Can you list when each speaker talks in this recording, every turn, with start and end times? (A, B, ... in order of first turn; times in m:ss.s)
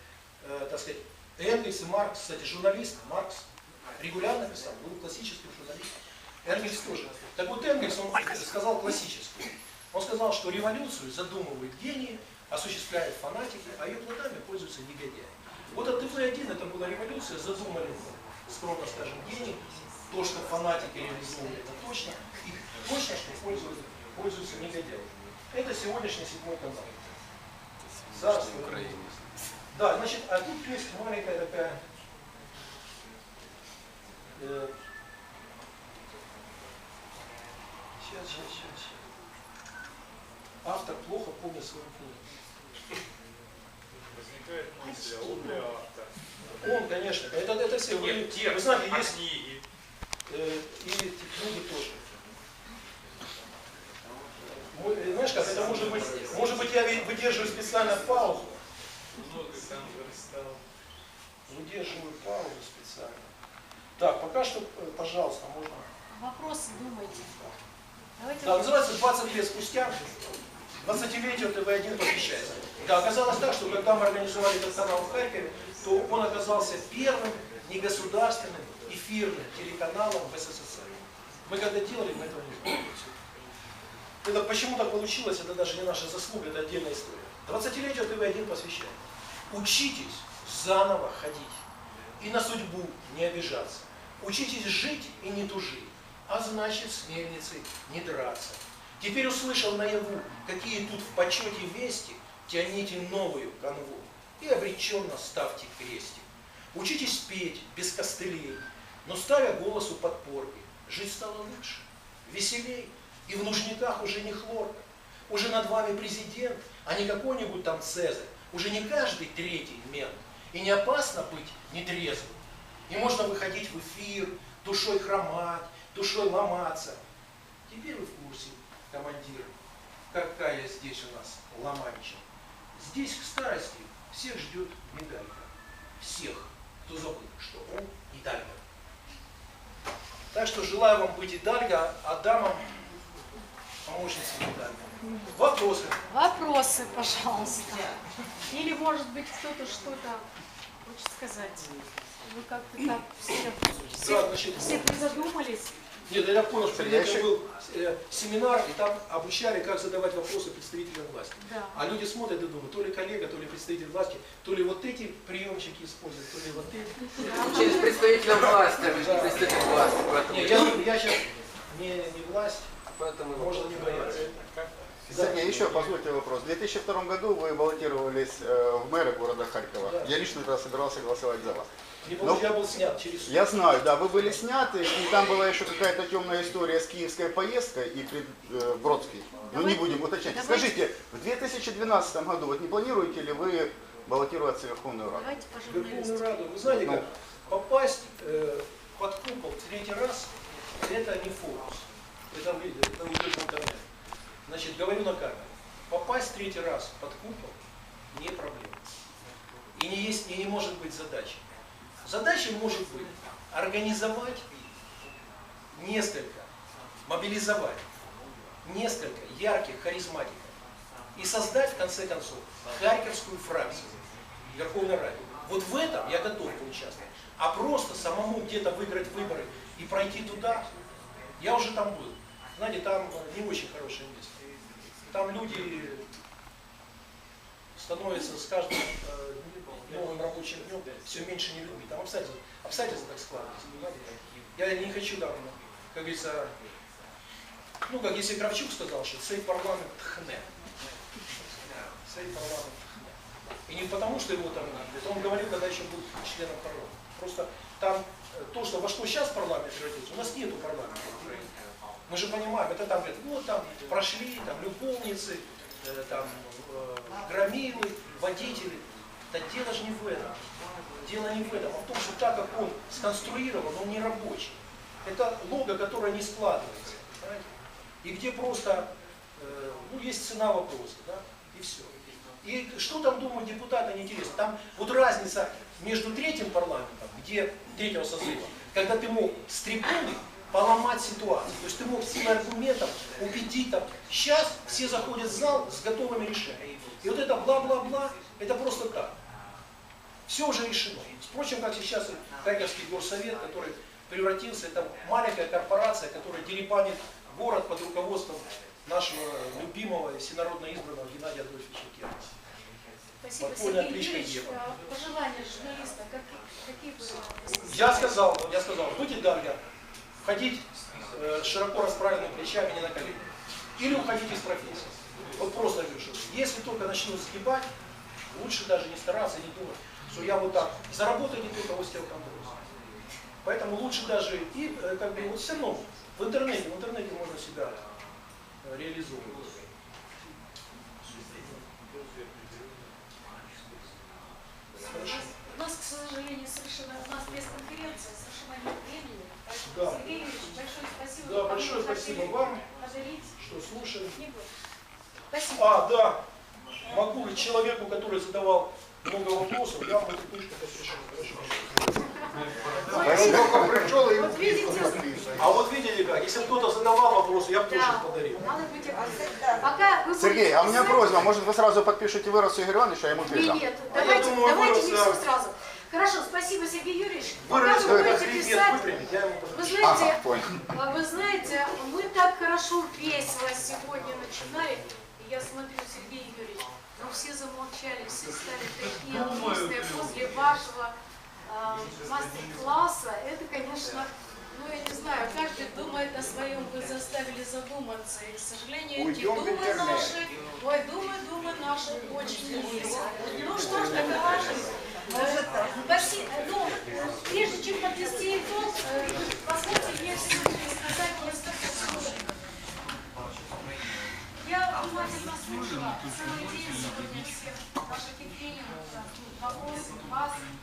0:00.4-0:03.5 A
0:04.0-0:05.9 A
0:06.4-0:27.0 A
0:28.1-0:29.0 A
0:29.7-0:31.8 A
0:34.4-0:34.7 A
0:38.0-0:39.0 A
0:40.6-0:42.2 A
0:44.3-0:44.7 B
0:44.8-0:45.7 C
0:46.6-0:49.3 A
0:48.1-0:49.6 B
0:50.3-0:52.0 A
0:54.6-0:58.6 A
0:59.2-1:00.6 B
1:01.5-1:03.3 A
1:04.0-1:05.9 A
1:06.1-1:07.3 C
1:08.2-1:08.9 C
1:08.4-1:10.0 A
1:10.8-1:23.1 A
1:24.2-1:29.0 A
1:29.5-1:31.6 A
1:32.2-2:07.0 A
2:07.7-2:09.5 A
2:10.1-2:18.6 A
2:20.3-2:22.6 A
2:23.8-2:26.0 A
2:26.1-2:28.0 C
2:28.5-2:30.2 C
2:30.8-2:31.7 C
2:32.2-2:35.8 C
2:34.0-2:35.0 A
2:36.1-2:47.9 A
2:36.7-2:37.3 D
2:41.4-2:41.8 C
2:47.2-2:48.6 C
2:47.4-2:50.8 E
2:48.8-2:52.7 A
2:53.0-2:54.1 E
2:53.3-2:54.4 A
2:55.1-2:55.7 A
2:55.1-3:01.7 D
2:59.8-3:00.1 A
3:02.0-3:03.5 A
3:02.2-3:02.5 D
3:03.3-3:15.3 D
3:09.5-3:10.8 C
3:15.1-3:16.5 C
3:15.7-3:23.9 A
3:16.6-3:17.0 D
3:24.5-3:27.6 A
3:28.1-3:28.8 A
3:29.7-3:31.4 A
3:32.0-3:34.5 A
3:35.7-3:36.5 A
3:37.0-3:37.8 A
3:38.6-3:40.6 A
3:41.2-3:44.0 A
3:44.5-3:50.7 A
3:51.4-3:54.4 A
3:55.1-3:56.1 A
3:57.8-4:06.5 A
4:07.9-4:10.5 A
4:12.1-4:13.2 A
4:13.7-4:21.5 A
4:22.1-4:30.4 A
4:31.0-4:37.5 A
4:38.0-4:59.2 A
5:00.3-5:12.3 A
5:13.2-5:18.1 C
5:13.4-5:14.6 A
5:17.7-5:19.6 A
5:20.2-5:27.7 A
5:28.3-5:32.6 A
5:33.4-5:37.8 A
5:38.6-5:39.7 A
5:44.8-5:45.3 A
5:45.0-5:53.4 C
5:49.6-5:50.0 A
5:51.2-5:52.7 A
5:53.4-5:54.2 A
5:54.1-5:54.5 C
5:55.3-5:55.8 C
5:55.5-5:56.2 A
5:56.8-6:02.1 A
6:02.8-6:05.2 C
6:02.8-6:08.4 A
6:02.9-6:05.3 D
6:07.7-6:11.2 C
6:10.2-6:13.6 D
6:13.2-6:18.8 C
6:13.9-6:15.2 A
6:17.4-6:19.9 A
6:17.8-6:18.2 D
6:19.5-6:30.9 C
6:19.8-6:20.6 D
6:31.5-6:52.4 C
6:39.0-6:40.2 D
6:54.4-7:00.4 C